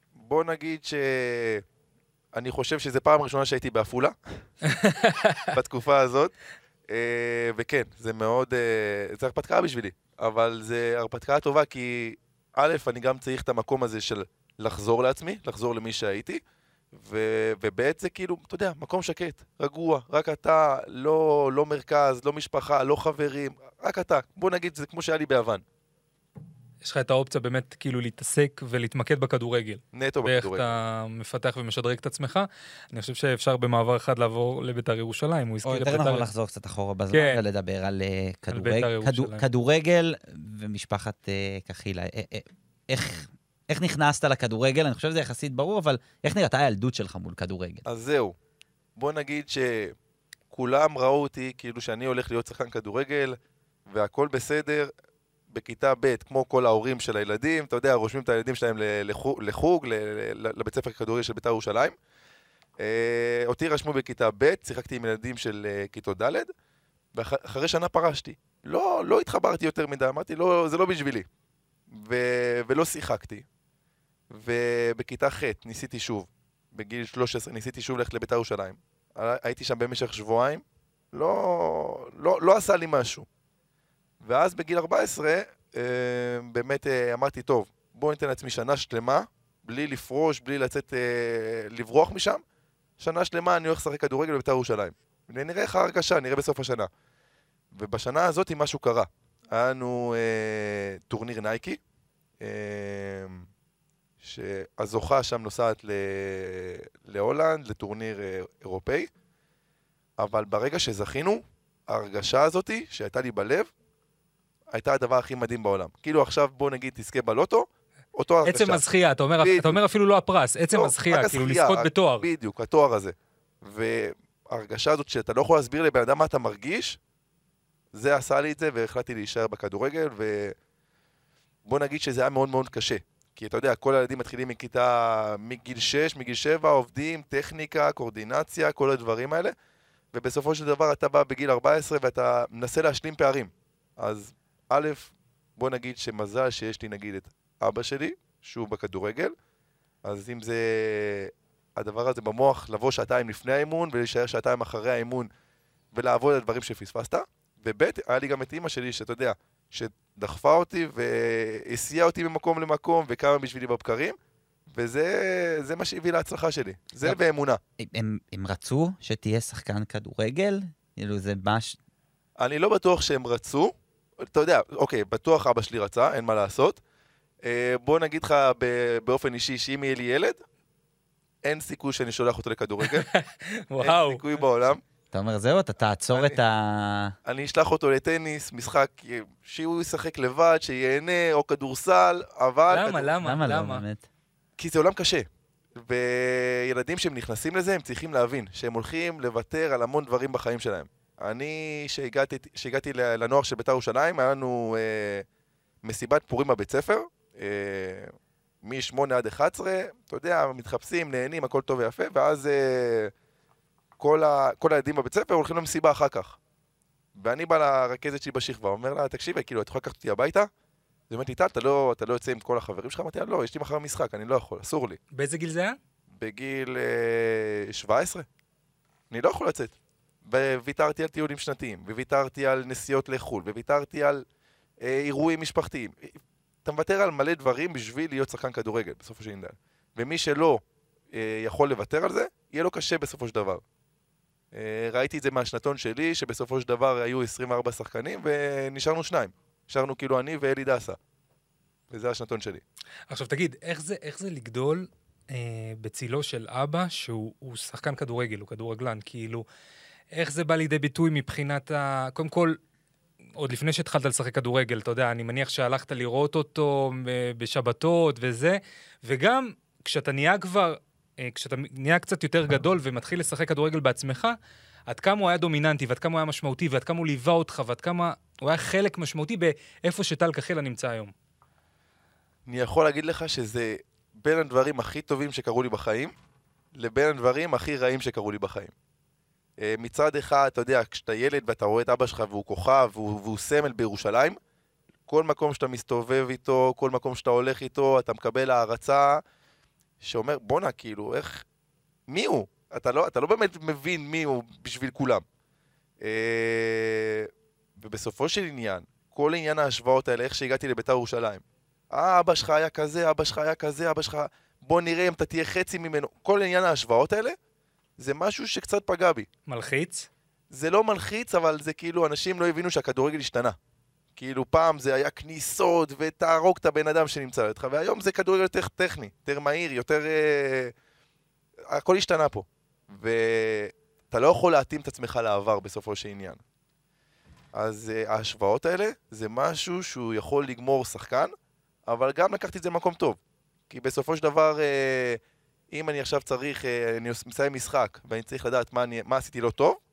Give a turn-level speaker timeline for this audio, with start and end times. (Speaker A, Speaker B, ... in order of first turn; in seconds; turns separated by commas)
Speaker A: 0.2-1.6, Speaker A: 2.3-4.4, Speaker B: 4.7-5.5, Speaker A: 5.5-6.3, Speaker A: 6.9-16.4, Speaker A: 16.9-25.6, Speaker B: 26.8-36.3, Speaker A: 29.9-30.7, Speaker C: 35.6-47.8, Speaker B: 37.1-37.4, Speaker B: 38.5-39.4, Speaker A: 47.8-48.4, Speaker A: 49.0-49.9, Speaker A: 50.5-53.4, Speaker A: 53.9-54.9, Speaker A: 55.5-62.0, Speaker A: 62.8-66.5, Speaker A: 67.1-71.3, Speaker A: 71.9-73.4, Speaker A: 74.3-83.2, Speaker A: 84.2-92.4, Speaker A: 93.0-96.9, Speaker A: 97.7-101.8, Speaker A: 102.4-103.4, Speaker A: 104.2-109.1, Speaker A: 110.2-113.7, Speaker A: 114.7-118.8, Speaker B: 118.4-122.3, Speaker A: 119.4-119.8, Speaker A: 120.7-127.0, Speaker A: 127.9-130.5, Speaker A: 131.7-139.5, Speaker A: 140.1-149.3, Speaker A: 150.0-155.3, Speaker A: 155.9-164.2, Speaker A: 164.7-167.6, Speaker C: 167.8-171.8, Speaker A: 172.4-176.8, Speaker A: 177.4-180.4, Speaker A: 181.4-183.1, Speaker B: 182.8-184.2, Speaker A: 183.8-184.8, Speaker C: 185.1-187.1, Speaker A: 187.2-193.1, Speaker B: 192.7-193.8, Speaker C: 193.2-194.0, Speaker A: 194.6-195.3, Speaker A: 195.8-205.2, Speaker A: 205.8-213.1, Speaker A: 214.0-216.4, Speaker A: 217.2-220.5, Speaker A: 221.1-225.0, Speaker B: 225.1-225.8, Speaker A: 226.2-228.2, Speaker A: 229.1-229.7, Speaker A: 230.2-234.2, Speaker A: 234.8-243.6, Speaker A: 244.5-251.0, Speaker A: 251.9-252.6, Speaker B: 253.1-259.4, Speaker B: 260.1-262.6, Speaker B: 263.4-274.4, Speaker B: 274.9-281.1, Speaker A: 282.5-286.1, Speaker A: 286.7-288.7, Speaker A: 289.6-294.4, Speaker A: 295.1-299.2, Speaker A: 300.0-301.4, Speaker A: 302.1-305.2, Speaker A: 306.0-317.4, Speaker A: 318.0-319.3, Speaker B: 319.5-320.1, Speaker A: 320.5-323.6, Speaker A: 324.1-330.7, Speaker A: 331.7-336.4, Speaker A: 337.5-341.3, Speaker A: 341.9-343.2, Speaker A: 343.7-345.2, Speaker A: 345.7-349.8